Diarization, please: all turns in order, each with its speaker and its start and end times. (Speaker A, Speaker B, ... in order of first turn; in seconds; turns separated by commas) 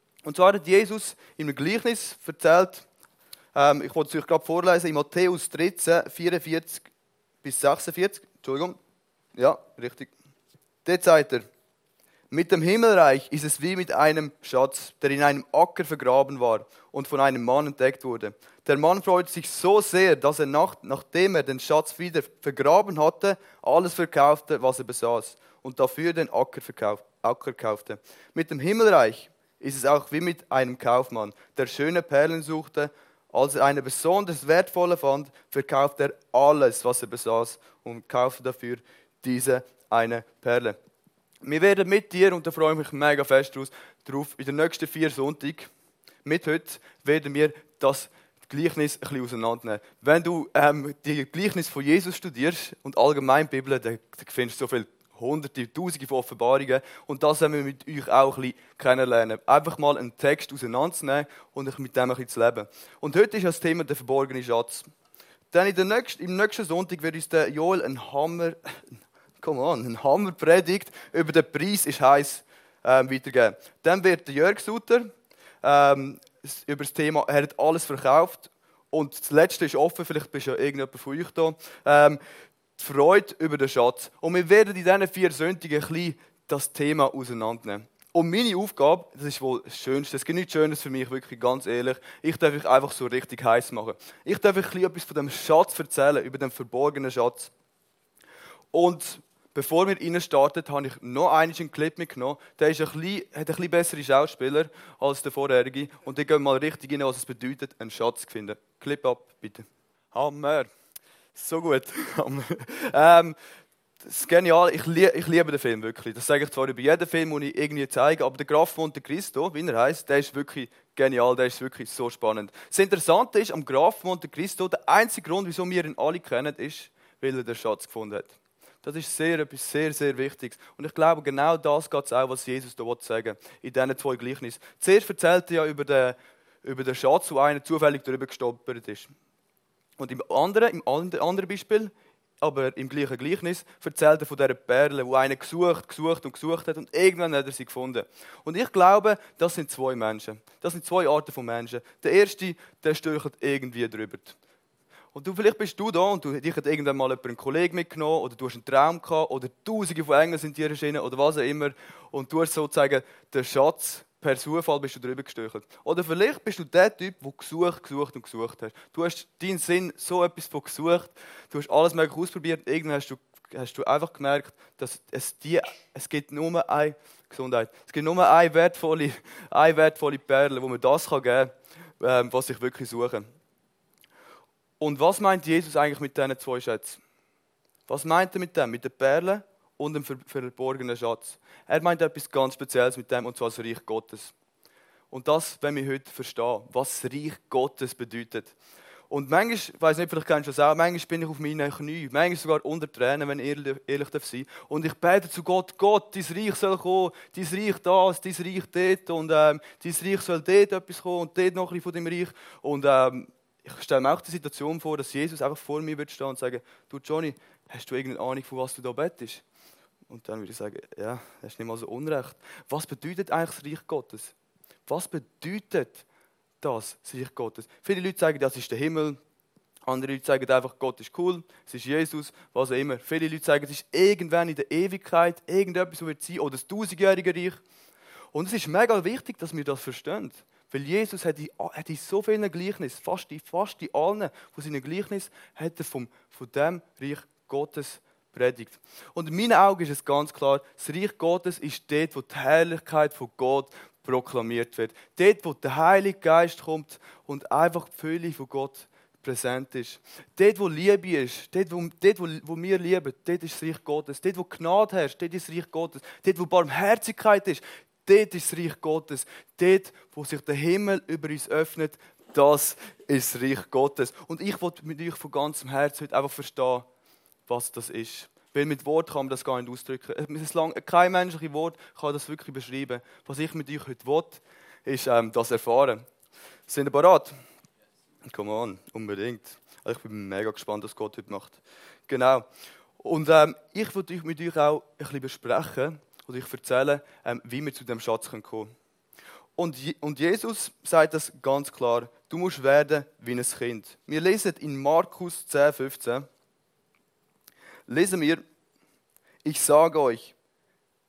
Speaker A: 0.2-2.9, Speaker A: 3.5-6.9, Speaker A: 7.4-8.8, Speaker A: 9.3-10.1, Speaker A: 10.8-11.4, Speaker A: 12.3-40.8, Speaker A: 41.4-45.7, Speaker A: 46.2-64.9, Speaker A: 65.5-75.1, Speaker A: 75.6-82.2, Speaker A: 82.8-97.5, Speaker A: 98.7-110.7, Speaker A: 111.3-113.3, Speaker A: 114.0-139.1, Speaker A: 140.0-154.4, Speaker A: 155.1-183.3, Speaker A: 184.8-187.0, Speaker A: 187.9-194.3, Speaker A: 195.1-198.5, Speaker A: 199.1-219.4, Speaker A: 220.1-224.3, Speaker A: 224.9-226.0, Speaker A: 226.6-229.2, Speaker A: 229.9-237.6, Speaker A: 238.3-276.9, Speaker A: 277.5-286.0, Speaker A: 286.7-287.3, Speaker A: 288.2-292.4, Speaker A: 293.0-298.7, Speaker A: 299.6-306.3, Speaker A: 307.9-308.4, Speaker A: 309.4-310.3